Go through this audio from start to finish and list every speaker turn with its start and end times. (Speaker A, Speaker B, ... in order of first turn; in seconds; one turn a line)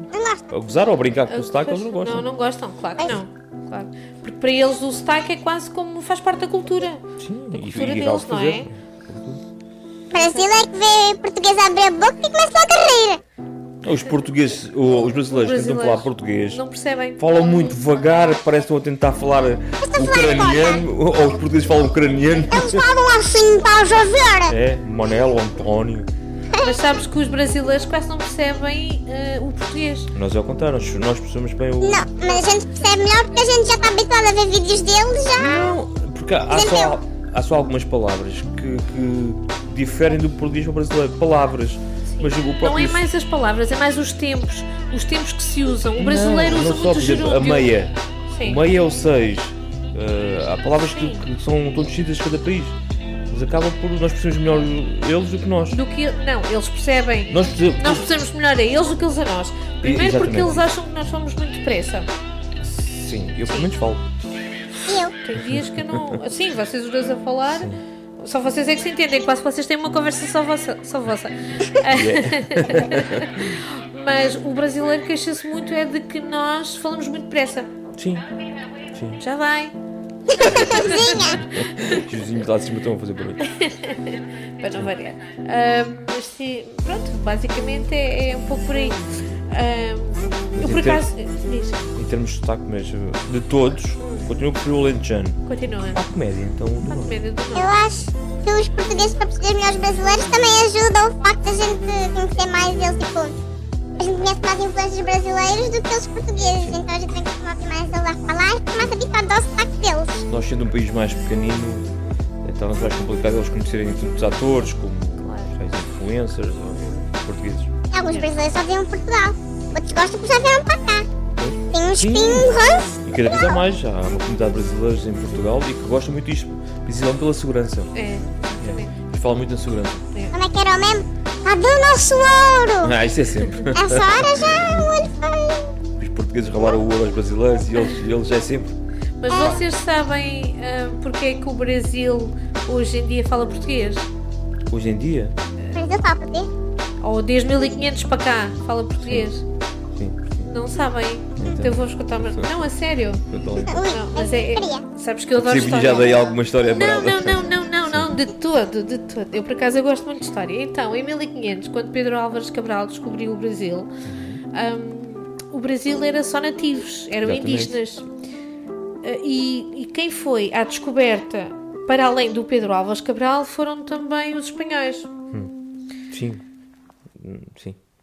Speaker A: 0.1-0.5
Speaker B: 0.5-2.3
Speaker C: 1.3-8.7
Speaker B: 7.2-9.4
Speaker A: 10.1-13.2
Speaker B: 13.8-16.6
Speaker C: 15.3-17.2
Speaker B: 17.2-22.9
Speaker A: 19.8-20.9
Speaker A: 22.5-24.5
Speaker B: 24.5-26.1
Speaker C: 26.6-30.1
Speaker B: 30.1-32.1
Speaker A: 31.8-35.8
Speaker B: 35.4-43.0
Speaker A: 36.5-37.0
Speaker C: 42.1-47.7
Speaker B: 46.0-52.8
Speaker C: 48.3-48.6
Speaker C: 51.0-51.2
Speaker B: 53.3-55.8
Speaker C: 55.7-62.1
Speaker B: 57.3-58.1
Speaker B: 59.8-60.7
Speaker B: 62.6-64.1
Speaker A: 64.8-65.2
Speaker C: 65.2-77.7
Speaker B: 65.4-66.2
Speaker B: 67.5-67.8
Speaker B: 71.8-73.6
Speaker B: 78.0-78.3
Speaker B: 78.9-79.2
Speaker C: 79.2-79.8
Speaker A: 80.3-81.4
Speaker C: 80.4-82.0
Speaker B: 80.5-83.5
Speaker C: 83.4-91.9
Speaker B: 90.5-91.1
Speaker B: 91.9-97.2
Speaker C: 94.0-94.3
Speaker C: 95.5-96.0
Speaker C: 96.9-97.7
Speaker A: 97.5-103.4
Speaker A: 104.0-110.3
Speaker B: 106.6-106.8
Speaker B: 110.3-111.9
Speaker B: 112.4-117.7
Speaker C: 115.2-115.5
Speaker A: 117.9-121.1
Speaker B: 121.4-128.0
Speaker A: 121.7-123.0
Speaker C: 128.0-128.9
Speaker B: 128.6-130.1
Speaker A: 130.3-133.0
Speaker B: 132.8-134.9
Speaker A: 133.7-135.8
Speaker B: 136.0-138.8
Speaker C: 139.2-144.1
Speaker B: 144.7-145.4
Speaker A: 145.7-146.5
Speaker C: 147.0-149.4
Speaker B: 149.0-149.3
Speaker B: 149.9-150.4
Speaker C: 150.4-163.9
Speaker B: 151.4-152.7
Speaker B: 153.2-153.9
Speaker A: 153.7-154.8
Speaker B: 155.3-158.1
Speaker B: 164.1-164.4
Speaker C: 164.5-168.1
Speaker B: 167.2-167.8
Speaker C: 169.0-175.1
Speaker B: 176.1-176.4
Speaker B: 177.1-177.8